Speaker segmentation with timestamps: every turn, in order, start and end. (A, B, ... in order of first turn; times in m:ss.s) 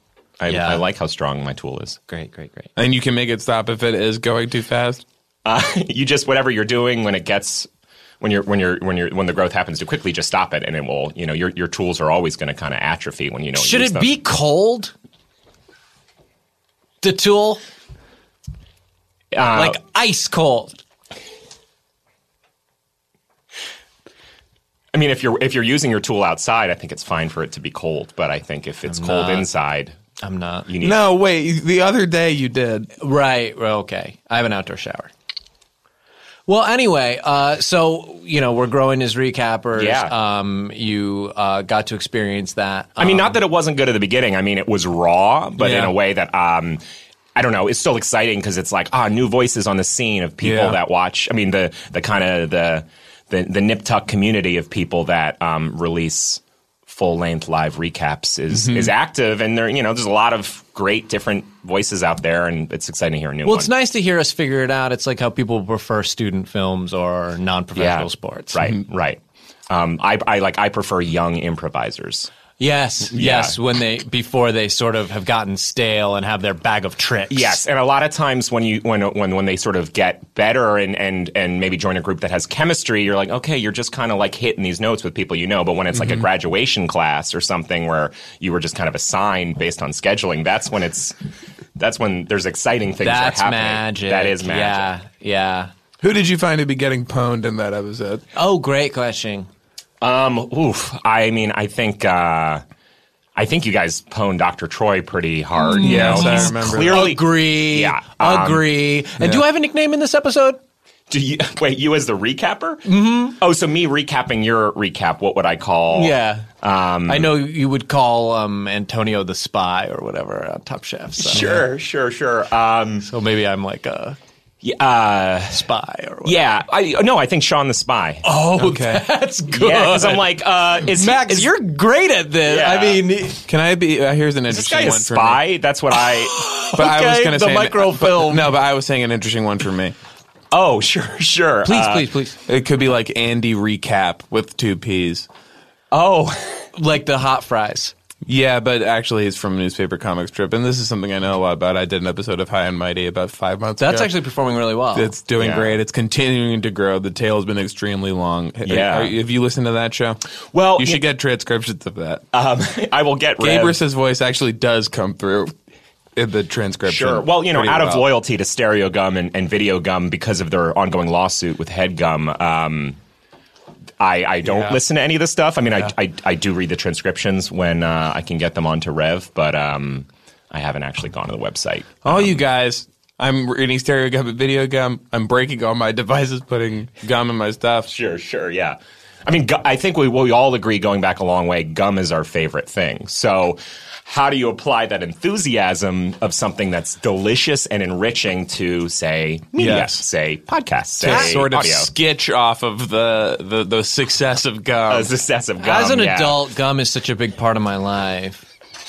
0:00.4-0:02.0 A
0:00.5-0:00.8 B
0:02.1-0:02.7 B
0:02.8-0:05.0 C
0:05.4-0:07.7 A
0:08.2-0:14.1 A
0:13.6-0:14.9 B
0:17.0-0:17.6 B
0:19.3-0:19.8 A
0:19.5-0:20.8 B
0:24.9-0:29.9 A
0:28.9-0:29.5 B
0:30.2-0:30.7 B
0:30.7-0:31.0 A
0:30.8-0:32.9 C
0:33.0-0:35.1 B
0:36.5-0:43.4 B
0:39.8-0:40.1 A
0:43.0-0:46.8 A
0:45.6-0:45.9 B
0:47.4-1:03.7 A
0:50.4-0:50.8 C
0:58.5-0:58.9 C
1:03.4-1:08.6 B
1:07.8-1:12.3 A
1:12.6-1:17.6 B
1:13.1-1:13.6 A
1:17.3-1:31.2 A
1:25.9-1:26.2 C
1:31.8-1:34.9 A
1:33.0-1:35.7 B
1:36.0-1:38.2 C
1:38.4-1:39.5 B
1:40.0-1:42.6 A
1:43.4-1:48.7 A
1:45.6-1:50.6 B
1:45.7-1:47.1 C
1:49.2-1:49.4 C
1:51.1-1:57.4 A
1:52.9-1:53.4 B
1:55.9-1:56.5 B
1:57.1-2:01.6 B
2:01.2-2:03.1 A
2:01.3-2:01.6 C
2:03.0-2:04.2 B
2:04.6-2:05.6 A
2:05.5-2:06.5 B
2:06.2-2:08.2 A
2:08.2-2:10.3 B
2:08.6-2:09.0 C
2:09.5-2:11.5 A
2:10.8-2:13.4 B
2:12.4-2:13.1 A
2:13.5-2:15.4 C
2:14.5-2:16.5 A
2:16.0-2:18.6 B
2:16.7-2:20.0 C
2:20.5-2:22.1 A
2:21.6-2:22.4 B
2:22.5-2:25.3 C
2:25.9-2:26.7 A
2:26.8-2:27.9 B
2:28.3-2:34.1 C
2:33.8-2:35.1 B
2:34.9-2:40.2 C
2:35.4-2:35.8 A
2:38.6-2:39.2 A
2:40.5-2:41.0 A
2:40.8-2:42.2 C
2:42.3-2:43.8 A
2:43.4-2:45.5 C
2:46.2-2:48.1 C
2:46.9-2:53.0 A
2:54.0-3:02.4 A
2:54.4-2:54.8 C
3:02.0-3:07.9 C
3:07.9-3:21.9 A
3:19.6-3:20.0 C
3:21.0-3:25.1 C
3:21.1-3:21.4 B
3:24.9-3:26.4 A
3:25.6-3:28.5 B